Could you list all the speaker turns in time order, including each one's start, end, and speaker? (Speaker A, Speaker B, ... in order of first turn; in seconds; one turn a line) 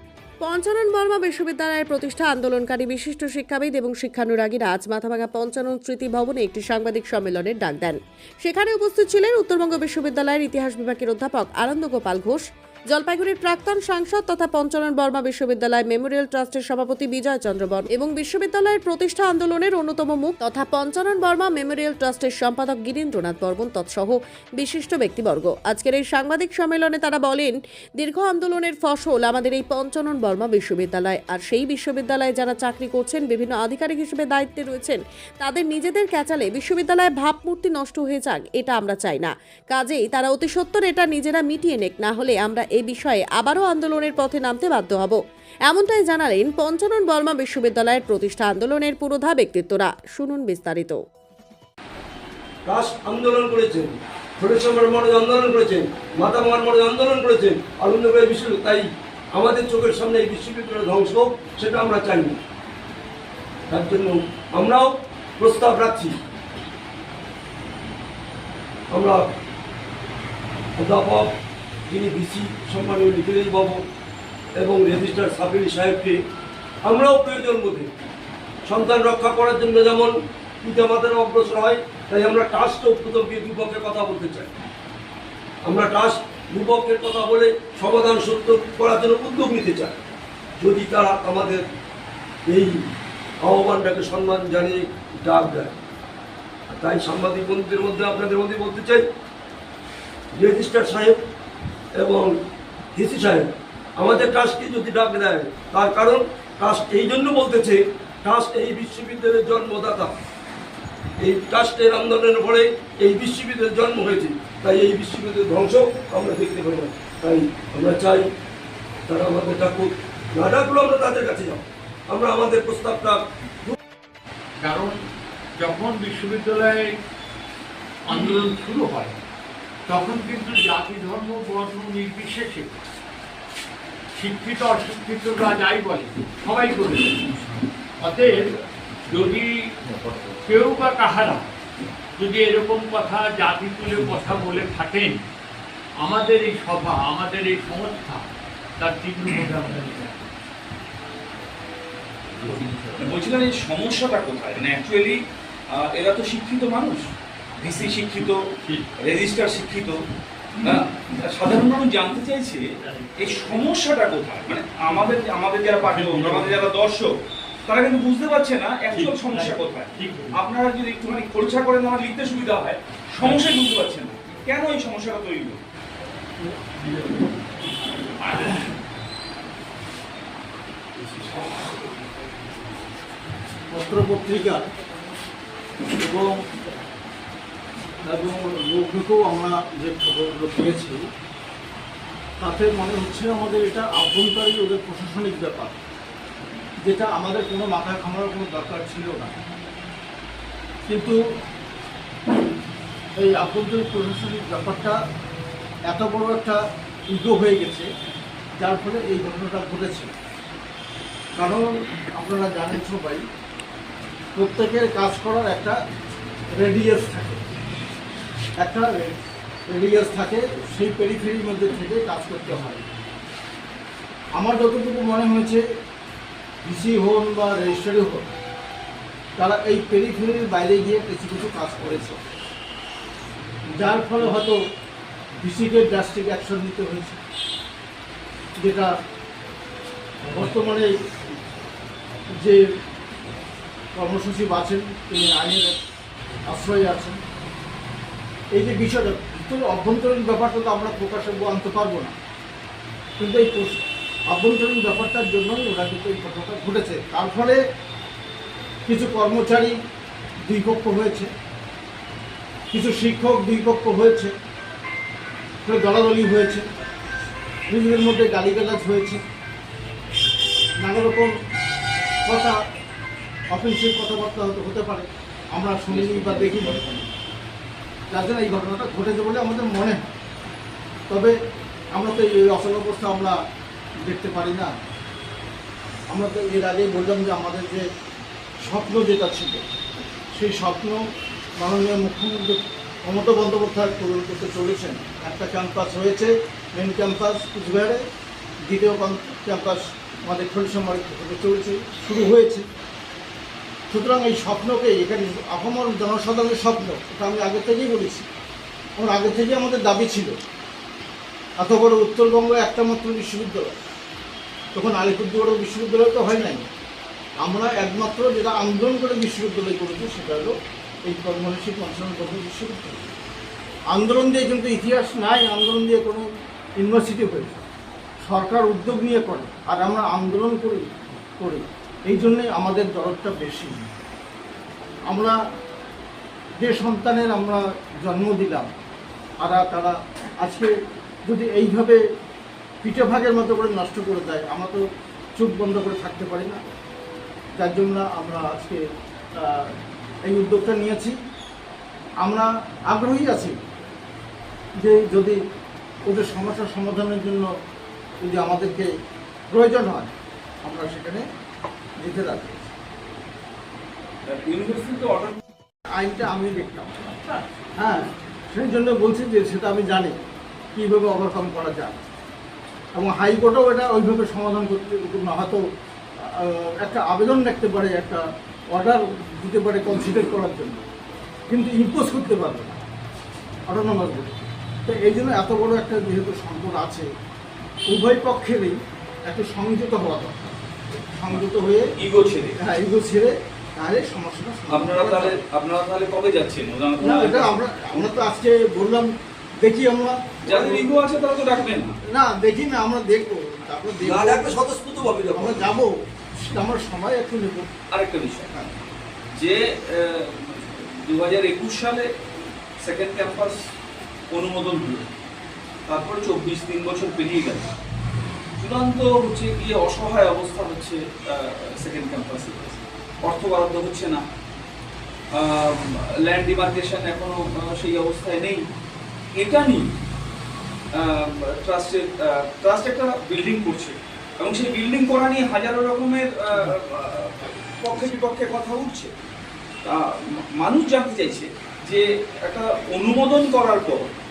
Speaker A: 0.4-51.0
Speaker B: 52.6-62.4
Speaker B: 63.7-66.2
Speaker B: 68.9-69.3
Speaker B: 70.8-71.3
Speaker B: 71.9-73.8
Speaker B: 74.6-76.2
Speaker B: 76.8-77.9
Speaker B: 78.7-84.5
Speaker B: 85.7-90.0
Speaker B: 90.6-91.6
Speaker B: 92.5-92.7
Speaker B: 93.4-95.8
Speaker B: 96.7-99.0
Speaker B: 100.4-101.2
Speaker B: 102.0-102.3
Speaker B: 102.9-110.1
Speaker B: 111.2-118.2
Speaker B: 119.1-123.8
Speaker C: 124.6-125.0
Speaker C: 125.6-126.9
Speaker C: 128.1-129.2
Speaker C: 129.9-132.8
Speaker C: 134.2-141.5
Speaker C: 142.2-145.2
Speaker C: 146.0-148.3
Speaker C: 148.8-150.3
Speaker C: 152.4-152.8
Speaker D: 153.0-155.2
Speaker D: 155.7-158.4
Speaker D: 159.0-160.0
Speaker D: 160.6-162.6
Speaker C: 162.8-163.5
Speaker D: 163.2-167.1
Speaker C: 165.8-166.6
Speaker D: 167.7-175.6
Speaker C: 168.9-170.4
Speaker C: 178.3-178.6
Speaker E: 183.7-184.7
Speaker E: 185.9-186.4
Speaker E: 188.0-191.0
Speaker E: 192.4-195.8
Speaker E: 196.8-199.3
Speaker E: 200.9-201.2
Speaker E: 203.2-205.0
Speaker E: 205.9-207.9
Speaker E: 208.6-210.1
Speaker E: 211.3-213.2
Speaker E: 214.3-215.8
Speaker E: 216.6-217.4
Speaker E: 218.6-222.9
Speaker E: 224.3-225.6
Speaker E: 226.6-228.3
Speaker E: 229.4-232.2
Speaker E: 233.7-234.6
Speaker E: 235.3-237.2
Speaker E: 238.5-238.9
Speaker E: 240.2-241.0
Speaker E: 243.9-245.8
Speaker E: 246.4-247.2
Speaker E: 248.5-252.1
Speaker E: 253.2-257.6
Speaker E: 258.9-259.8
Speaker E: 260.4-261.3
Speaker E: 262.7-264.3
Speaker E: 265.6-266.7
Speaker E: 267.7-269.2
Speaker E: 270.8-271.3
Speaker E: 272.2-272.6
Speaker E: 273.5-277.0
Speaker D: 275.9-276.9
Speaker E: 278.1-280.1
Speaker E: 281.1-281.3
Speaker E: 281.9-283.4
Speaker E: 284.0-284.8
Speaker E: 286.1-287.9
Speaker E: 288.6-289.6
Speaker E: 290.3-291.0
Speaker E: 291.6-298.0
Speaker E: 298.7-302.6
Speaker E: 303.9-308.3
Speaker E: 309.0-310.4
Speaker E: 311.6-313.7
Speaker E: 314.7-316.7
Speaker E: 317.4-320.5
Speaker E: 321.0-323.1
Speaker E: 323.9-326.2
Speaker E: 326.8-327.6
Speaker E: 328.2-333.9
Speaker E: 335.1-335.4
Speaker E: 336.6-338.7
Speaker E: 339.4-340.7
Speaker E: 341.2-342.0
Speaker E: 342.8-344.8
Speaker E: 345.4-346.6
Speaker E: 347.6-348.8
Speaker E: 349.3-351.2
Speaker E: 352.2-353.6
Speaker E: 354.8-355.4
Speaker E: 356.1-357.5
Speaker E: 358.2-358.9
Speaker E: 359.5-360.1
Speaker E: 360.6-361.2
Speaker E: 362.0-362.6
Speaker D: 364.2-365.4
Speaker E: 365.9-370.2
Speaker E: 370.7-372.0
Speaker E: 372.9-375.6
Speaker E: 376.2-380.8
Speaker E: 381.5-382.8
Speaker E: 383.7-387.1
Speaker E: 387.9-391.9
Speaker D: 391.9-392.6
Speaker E: 392.6-395.4
Speaker D: 394.7-397.5
Speaker E: 397.0-400.9
Speaker D: 400.5-402.0
Speaker E: 402.1-404.5
Speaker B: 404.0-405.7
Speaker E: 405.3-407.7
Speaker D: 407.9-408.5
Speaker D: 409.3-412.1
Speaker D: 412.8-413.6
Speaker D: 414.3-415.1
Speaker D: 415.9-417.7
Speaker D: 418.6-424.2
Speaker D: 425.3-428.6
Speaker D: 429.4-429.9
Speaker D: 431.0-439.1
Speaker D: 440.6-444.1